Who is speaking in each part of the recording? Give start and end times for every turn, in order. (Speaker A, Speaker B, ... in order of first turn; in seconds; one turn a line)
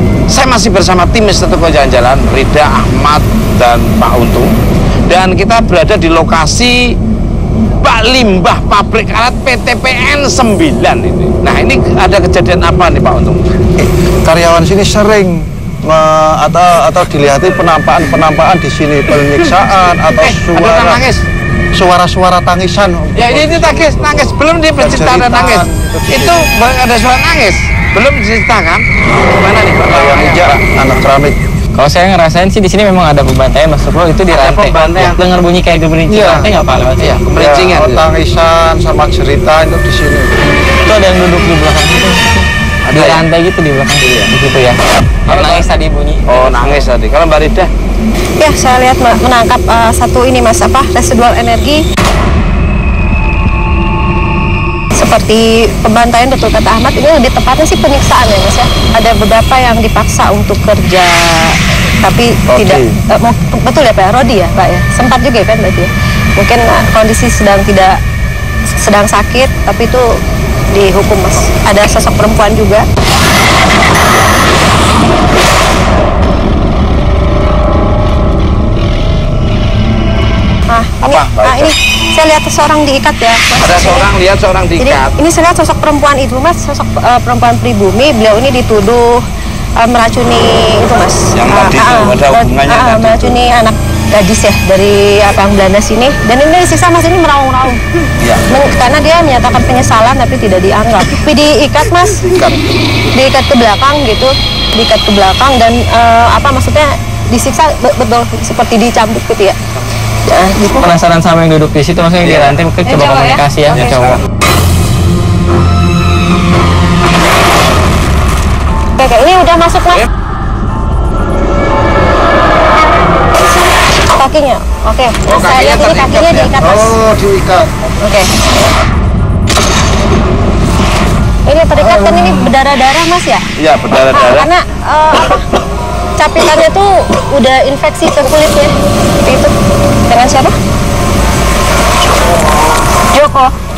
Speaker A: 0.3-4.5
Speaker A: 5.1-7.0
Speaker A: 7.8-13.4
Speaker B: 14.2-21.0
Speaker A: 19.2-21.2
Speaker B: 21.8-26.5
Speaker A: 23.2-30.6
Speaker B: 29.9-31.4
Speaker C: 31.8-37.2
Speaker A: 34.3-35.2
Speaker B: 36.1-36.5
Speaker A: 37.0-38.0
Speaker B: 37.4-40.4
Speaker C: 40.9-46.9
Speaker A: 42.9-43.3
Speaker A: 44.0-44.3
Speaker A: 45.3-45.7
Speaker A: 46.3-47.7
Speaker D: 48.4-51.8
Speaker D: 55.0-68.0
Speaker B: 62.5-62.9
Speaker D: 68.8-70.1
Speaker D: 70.7-72.8
Speaker D: 80.7-84.1
Speaker A: 81.0-81.7
Speaker A: 83.6-85.1
Speaker D: 84.8-89.2
Speaker D: 89.8-97.8
Speaker A: 91.3-93.3
Speaker D: 98.5-102.3
Speaker A: 102.3-102.6
Speaker D: 103.2-109.6
Speaker D: 110.3-110.9
Speaker C: 110.8-114.2
Speaker A: 112.2-112.6
Speaker D: 112.8-114.1
Speaker A: 113.7-114.2
Speaker D: 119.0-120.0
Speaker D: 124.1-127.0
Speaker A: 125.2-126.5
Speaker B: 126.6-127.9
Speaker D: 128.0-128.3
Speaker D: 131.5-133.4
Speaker A: 133.6-134.5
Speaker D: 134.1-135.5
Speaker D: 136.2-138.7
Speaker D: 139.2-139.5
Speaker D: 140.1-140.5
Speaker D: 143.1-143.5